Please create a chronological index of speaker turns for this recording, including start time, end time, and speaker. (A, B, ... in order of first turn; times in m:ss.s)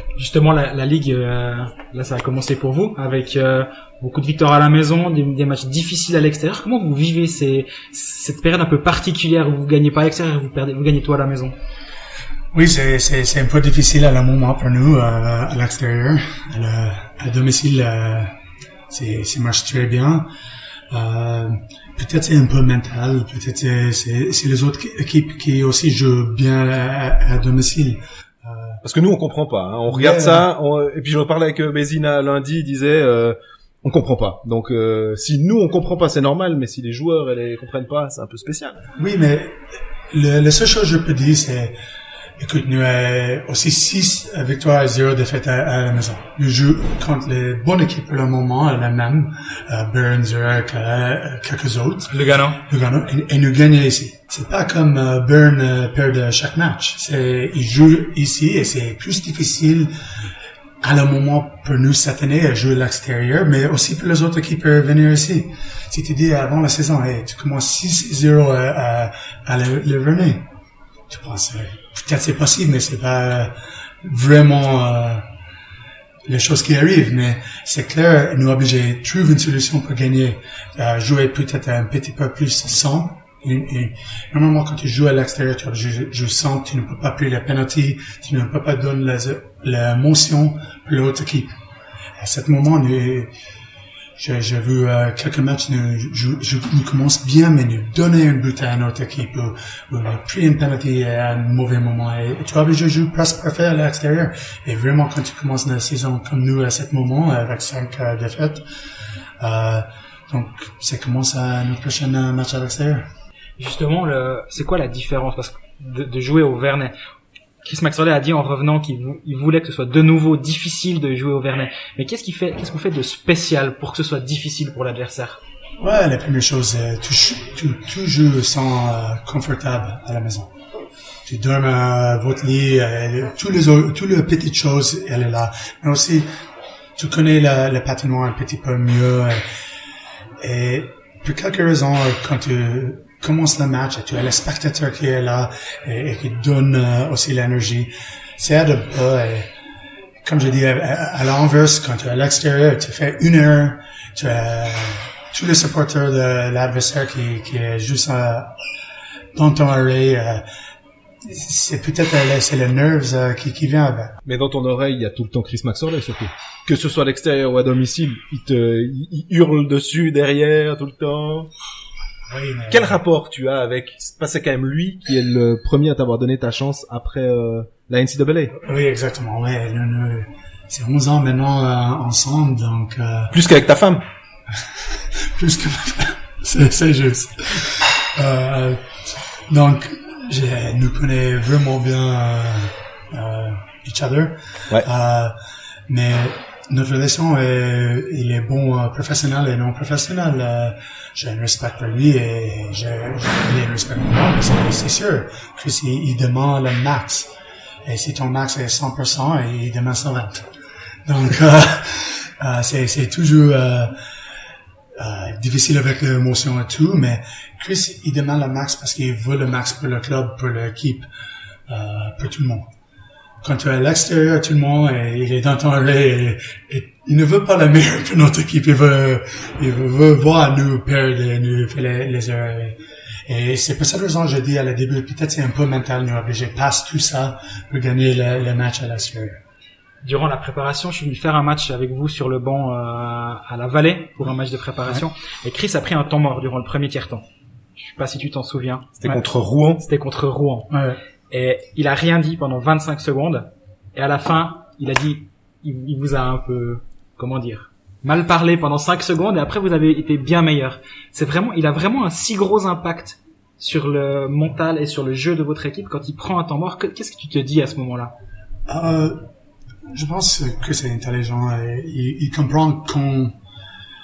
0:00.2-0:11.6 A
0:12.5-0:18.3 B
0:18.9-0:20.3 B
0:20.9-0:28.8 B
0:28.8-0:38.8 C
0:29.9-0:30.5 B
0:39.0-0:41.8 B
0:42.4-0:59.9 B
0:52.1-0:52.6 A
1:00.8-1:10.5 B
1:11.1-1:15.3 B
1:16.3-1:31.5 B
1:32.2-1:33.3 B
1:34.2-1:48.6 B
1:49.4-1:53.1 B
1:53.6-1:56.9 A
1:57.6-2:05.4 A
2:05.8-2:10.5 B
2:11.2-2:16.3 B
2:17.0-2:19.5 B
2:20.4-2:29.5 B
2:30.2-2:38.6 B
2:39.3-2:40.4 B
2:41.2-2:44.2 B
2:44.3-2:51.5 C
2:52.3-2:53.0 B
2:52.7-2:58.6 C
2:58.6-3:03.3 B
3:03.3-3:04.0 C
3:05.2-3:15.4 B
3:15.9-3:27.3 B
3:27.8-3:30.5 B
3:31.1-3:34.0 B
3:35.0-3:41.1 B
3:41.7-3:42.7 B
3:43.4-3:59.4 B
4:00.0-4:10.8 A
4:09.0-4:09.8 C
4:10.7-4:11.0 B
4:11.3-4:28.1 A
4:28.7-4:29.3 B
4:29.9-4:33.4 B